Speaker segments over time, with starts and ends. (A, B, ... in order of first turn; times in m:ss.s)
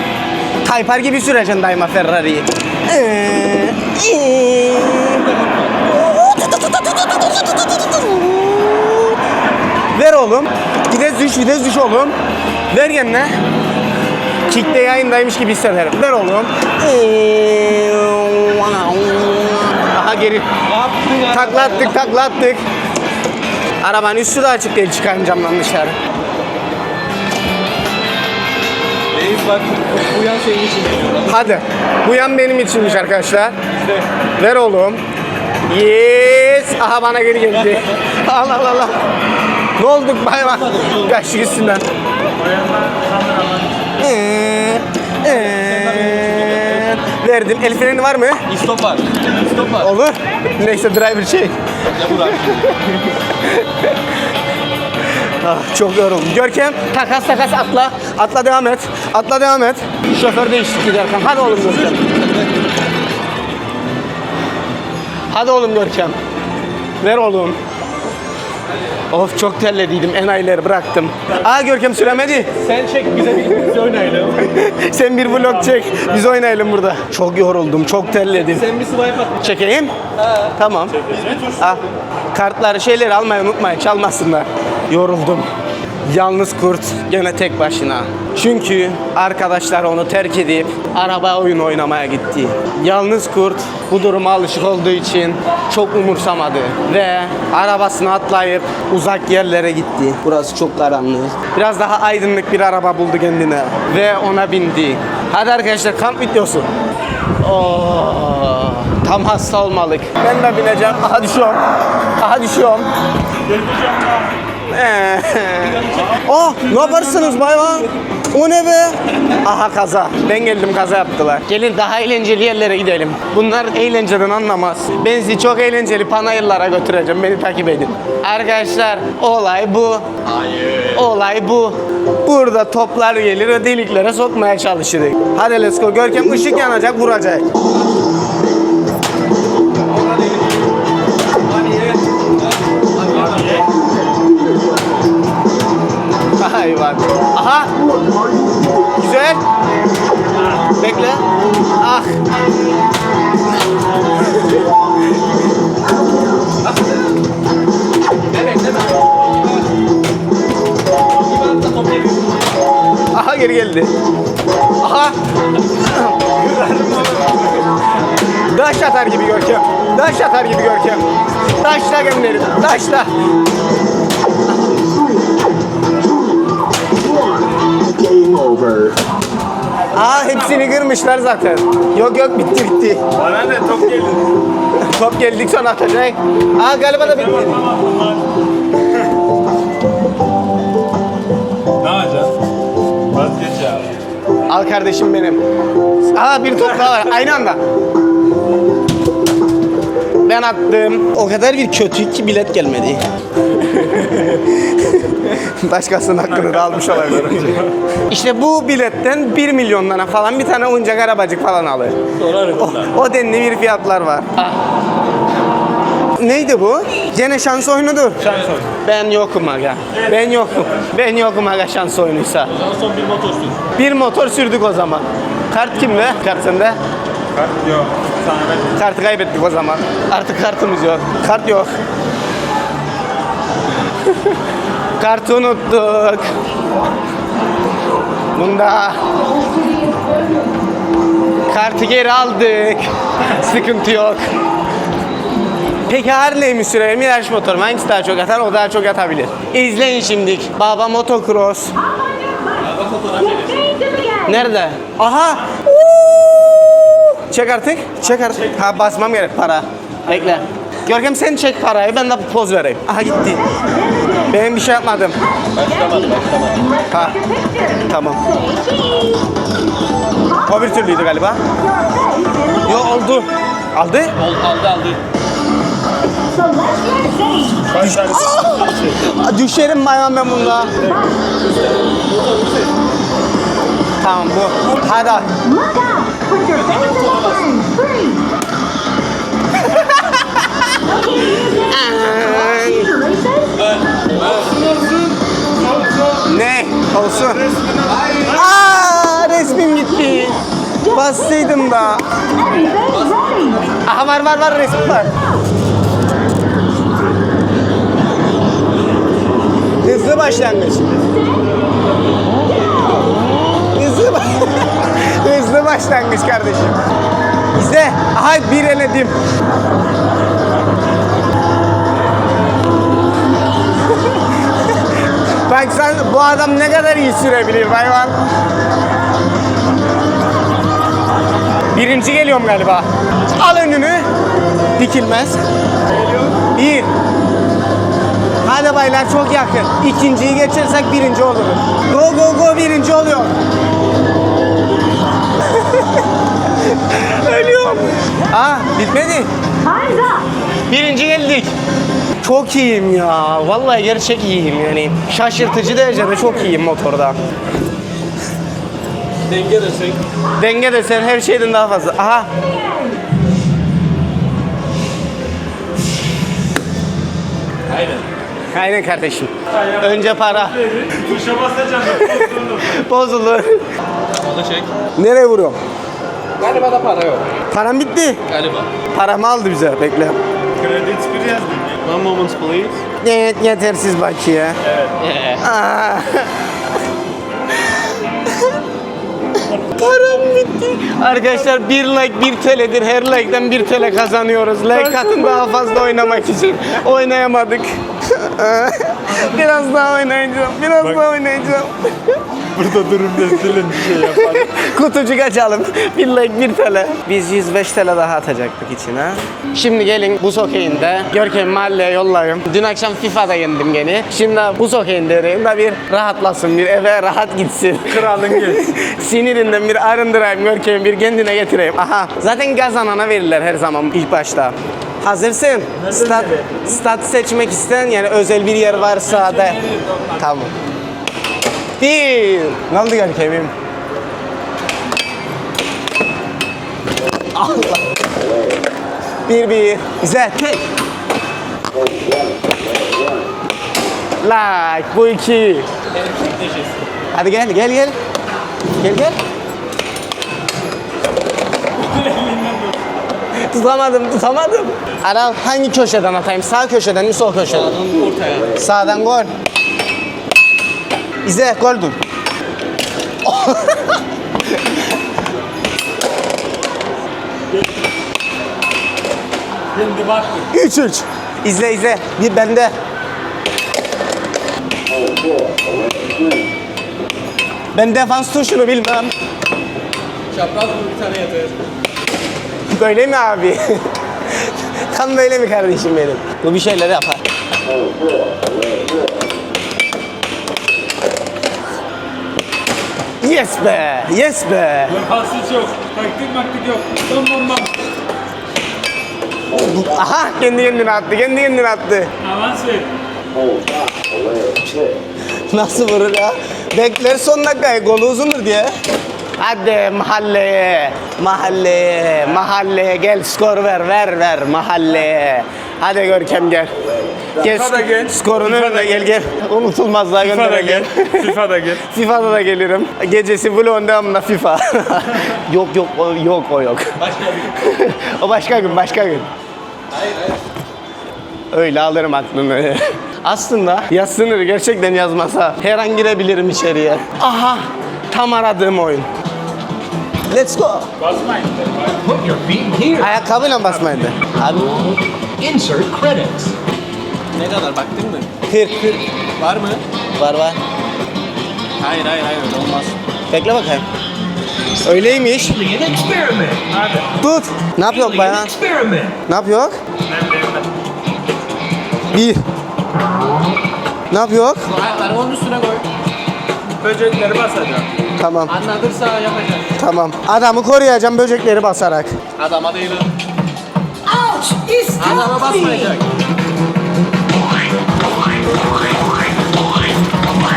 0:00.6-0:05.2 A
0:05.1-0:05.8 B
0:05.9-0:09.2 A
0:09.9-0:12.2 A
0:12.7-0:13.4 A
0:14.5-0:20.5 A
0:20.6-0:22.2 B
0:21.3-0:22.6 A
0:23.8-0:26.0 A
0:29.1-0:31.5 B
0:31.2-0:33.6 A
0:33.7-0:34.1 B
0:34.4-0:35.0 A
0:35.7-0:39.0 A
0:39.8-0:41.9 A
0:40.4-0:41.8 B
0:42.4-0:43.8 C
0:44.0-0:48.4 A
0:45.2-0:47.0 B
0:48.5-0:49.9 B
0:49.8-0:51.6 A
0:51.9-0:52.8 B
0:53.4-0:53.9 A
0:55.4-1:02.0 A
1:01.3-1:02.9 B
1:05.3-1:06.2 A
1:07.0-1:07.6 A
1:08.7-1:09.0 B
1:09.1-1:12.5 A
1:12.3-1:14.5 B
1:14.4-1:18.7 A
1:15.2-1:16.3 C
1:18.2-1:19.6 B
1:19.4-1:19.9 A
1:20.1-1:20.5 B
1:20.6-1:21.8 A
1:20.9-1:21.4 C
1:21.2-1:21.9 B
1:22.3-1:25.5 A
1:26.0-1:46.7 A
1:47.4-1:51.6 A
1:52.2-1:52.9 A
1:53.4-1:54.3 C
1:54.7-2:10.1 A
1:55.6-1:56.2 B
1:56.7-1:57.4 C
2:10.2-2:11.1 B
2:10.9-2:17.4 A
2:19.7-2:20.7 B
2:21.3-2:23.7 B
2:23.3-2:23.6 C
2:26.4-2:27.7 A
2:28.9-2:29.4 A
2:30.8-2:31.2 A
2:31.8-2:32.1 A
2:36.6-2:37.2 B
2:38.3-2:39.7 B
2:41.1-2:42.6 B
2:43.1-2:43.9 A
2:44.8-2:45.2 A
2:46.4-2:47.4 C
2:48.5-2:51.0 A
2:51.6-2:53.1 A
2:59.9-3:00.7 C
2:59.9-3:03.0 A
3:03.1-3:04.3 C
3:04.8-3:07.6 A
3:07.0-3:08.3 C
3:11.8-3:12.3 C
3:13.1-3:13.9 C
3:14.5-3:15.4 A
3:16.1-3:17.6 A
3:20.2-3:23.0 A
3:23.6-3:32.0 A
3:27.3-3:27.6 C
3:32.2-3:32.9 B
3:32.6-3:34.6 A
3:36.2-3:38.2 A
3:38.2-3:38.6 B
3:38.2-3:38.7 C
3:38.8-3:42.5 A
3:39.9-3:40.8 C
3:42.5-3:43.6 B
3:43.8-3:46.8 A
3:47.3-3:48.8 C
3:48.8-3:51.7 A
3:55.0-3:56.3 A
3:58.3-3:59.0 A
3:59.3-4:00.5 D
4:01.5-4:04.3 A
4:05.9-4:11.7 A
4:12.6-4:13.7 B
4:14.2-4:23.4 A
4:24.3-4:25.2 A
4:25.5-4:26.8 B
4:26.9-4:27.2 A
4:27.8-4:28.2 A
4:28.4-4:29.0 D
4:30.4-4:31.4 A
4:32.2-4:32.6 D
4:32.6-4:34.1 A
4:34.1-4:35.0 B
4:36.5-4:37.6 D
4:37.7-4:39.0 C
4:37.7-4:40.7 A
4:40.6-4:42.8 B
4:44.0-4:45.3 A
4:45.7-4:46.7 D
4:46.4-4:47.6 B
4:47.6-4:47.8 D
4:49.6-4:50.6 A
4:51.4-4:52.9 A
4:52.5-4:53.4 D
4:53.5-4:55.0 B
4:55.6-4:56.2 C
4:56.2-4:57.5 A
4:57.3-4:58.2 C
4:57.7-4:58.4 B
4:58.2-5:02.0 A
5:02.6-5:03.8 B
5:03.8-5:05.1 A
5:09.8-5:10.9 A
5:12.7-5:12.9 B
5:13.7-5:16.8 A
5:17.5-5:19.1 A
5:25.5-5:28.2 A
5:31.7-5:34.1 A
5:34.8-5:35.4 A
5:36.5-5:36.9 A
5:38.4-5:43.3 A
5:45.6-5:45.9 A
5:46.7-5:49.3 A
5:50.7-5:51.5 A
5:52.2-5:57.2 A
5:59.2-6:00.0 B
6:00.4-6:02.3 A
6:07.7-6:08.1 B
6:08.5-6:10.6 A
6:09.5-6:12.7 C
6:11.9-6:13.6 A
6:14.1-6:14.7 B
6:15.0-6:15.6 A
6:16.4-6:17.3 B
6:17.5-6:18.2 A
6:18.3-6:18.7 B
6:18.9-6:20.2 A
6:20.6-6:22.8 B
6:23.0-6:24.6 A
6:24.9-6:25.4 B
6:25.4-6:26.3 A
6:28.3-6:28.6 A
6:29.4-6:42.2 A
6:29.6-6:30.1 C
6:34.8-6:35.3 C
6:42.5-6:44.5 C
6:43.3-7:09.6 A
6:57.9-6:58.6 C
7:05.8-7:06.6 C
7:08.8-7:10.2 C
7:10.2-7:10.5 A
7:11.8-7:13.5 A
7:17.3-7:17.8 A
7:19.3-7:20.6 A
7:24.2-7:25.7 A
7:25.9-7:26.9 B
7:27.1-7:28.0 A
7:28.8-7:29.2 A
7:31.9-7:32.6 C
7:33.3-7:37.8 A
7:37.5-7:38.6 B
7:38.6-7:39.3 A
7:41.2-7:42.0 A
7:43.2-7:44.0 A
7:49.7-7:50.5 C
7:50.5-7:52.7 A
7:57.7-7:59.1 A
8:00.3-8:01.6 B
8:02.7-8:03.8 A
8:04.4-8:07.2 A
8:13.2-8:15.0 A
8:14.9-8:17.7 C
8:19.5-8:22.1 A
8:22.2-8:22.9 C
8:25.5-8:28.7 A
8:29.4-8:36.7 A
8:37.4-8:41.4 A
8:37.4-8:39.2 C
8:40.2-8:41.8 C
8:41.9-8:47.0 A
8:47.0-8:47.6 B
8:47.5-8:49.3 A
8:49.9-8:50.4 B
8:51.5-8:59.1 A
9:00.3-9:00.9 A
9:01.0-9:02.0 C
9:02.0-9:03.2 E
9:03.0-9:04.8 A
9:05.4-9:06.5 E
9:07.3-9:08.3 B
9:08.5-9:09.0 A
9:09.4-9:09.8 B
9:10.2-9:10.6 A
9:11.8-9:13.0 B
9:13.3-9:13.8 A
9:14.8-9:15.5 A
9:14.9-9:16.7 E
9:16.7-9:17.1 C
9:17.2-9:18.5 A
9:17.8-9:19.2 E
9:19.3-9:19.8 A
9:20.1-9:20.7 C
9:22.1-9:22.4 A
9:24.1-9:24.7 A
9:24.7-9:25.8 B
9:26.8-9:27.9 C
9:28.2-9:28.5 A
9:28.5-9:29.8 B
9:29.8-9:32.1 A
9:32.4-9:33.1 B
9:34.0-9:36.0 D
9:35.0-9:36.1 B